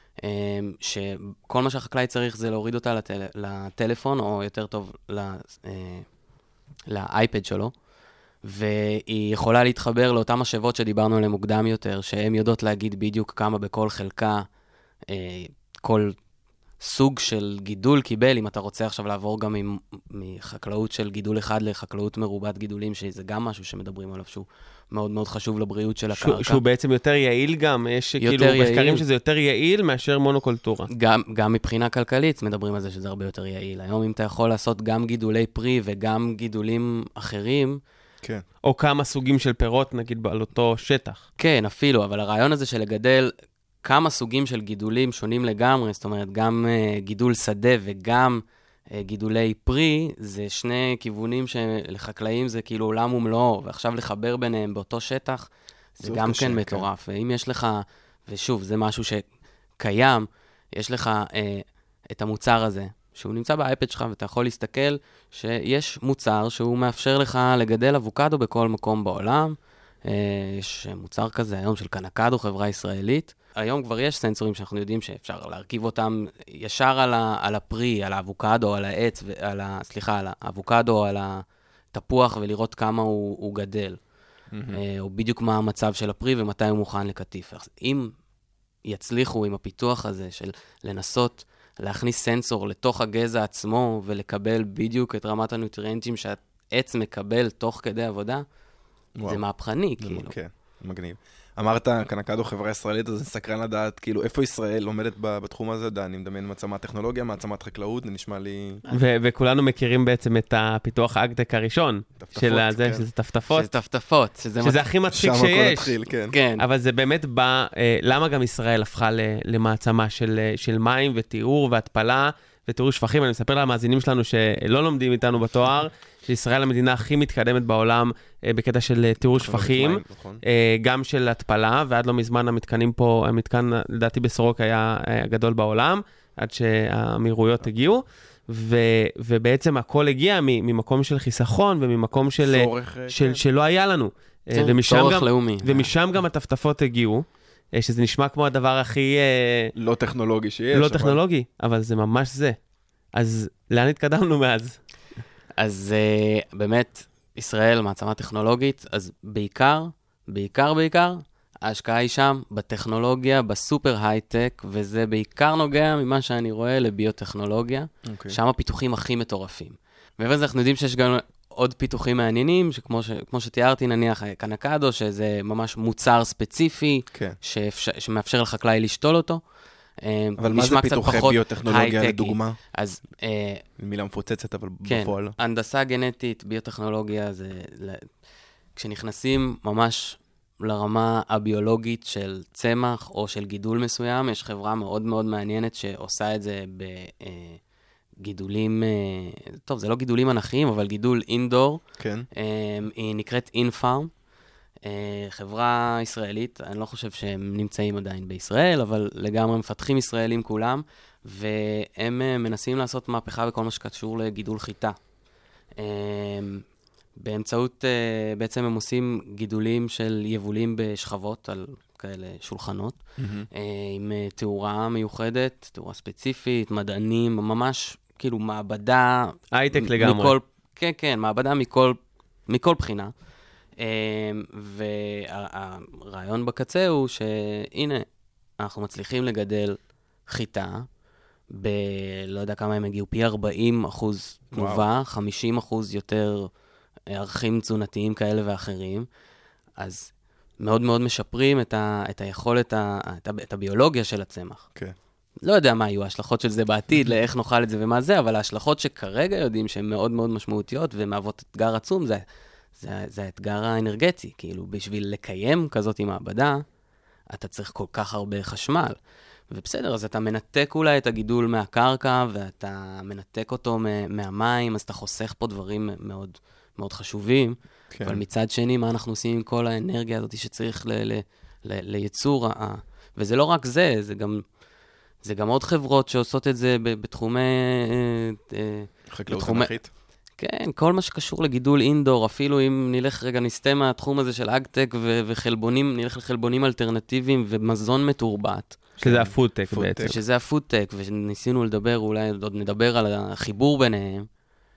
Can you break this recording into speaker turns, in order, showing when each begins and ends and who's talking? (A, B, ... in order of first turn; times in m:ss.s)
0:00.2-0:06.1 A
0:06.9-0:07.7 A
0:08.4-0:14.4 A
0:15.1-0:16.2 A
0:16.8-0:26.6 A
0:26.1-0:30.9 B
0:28.2-0:29.0 A
0:30.9-0:37.8 A
0:38.6-0:41.2 B
0:41.4-0:43.3 A
0:43.8-0:48.4 A
0:48.9-0:59.2 A
0:56.0-0:56.9 C
0:59.8-1:24.0 A
1:24.5-1:24.8 C
1:24.7-1:28.1 A
1:28.9-1:38.4 A
1:39.2-1:39.4 C
1:39.3-1:40.4 A
1:40.0-1:48.8 C
1:48.9-1:53.7 B
1:52.2-1:53.0 C
1:53.5-1:54.8 A
1:54.6-1:56.0 B
1:55.1-1:56.4 C
1:56.3-1:56.6 A
1:56.6-2:29.7 B
2:09.3-2:10.4 C
2:22.4-2:23.4 C
2:24.5-2:25.9 A
2:29.8-2:31.2 C
2:30.7-2:32.6 B
2:33.1-2:34.8 B
2:35.6-2:59.4 A
2:48.0-2:48.4 C
3:00.0-3:03.6 A
3:00.4-3:02.6 C
3:03.8-3:05.4 C
3:04.8-3:08.1 A
3:08.8-3:17.6 A
3:18.2-3:21.8 A
3:22.0-3:22.3 C
3:22.4-3:24.1 A
3:24.8-3:35.0 A
3:35.8-3:36.6 A
3:37.2-3:43.0 A
3:43.2-3:43.5 C
3:43.5-3:52.0 A
3:49.5-3:50.4 B
3:52.5-3:53.1 A
3:53.8-3:58.1 A
3:58.6-4:00.9 A
4:01.5-4:06.5 A
4:04.5-4:04.8 C
4:07.1-4:09.1 A
4:09.8-4:14.7 A
4:15.4-4:22.2 A
4:22.8-4:26.6 A
4:27.3-4:29.0 A
4:29.5-4:44.4 A
4:37.9-4:38.2 C
4:45.2-4:49.8 A
4:49.1-4:49.9 C
4:50.4-4:58.8 A
4:59.0-5:00.2 C
4:59.0-5:00.2 B
5:00.0-5:04.3 A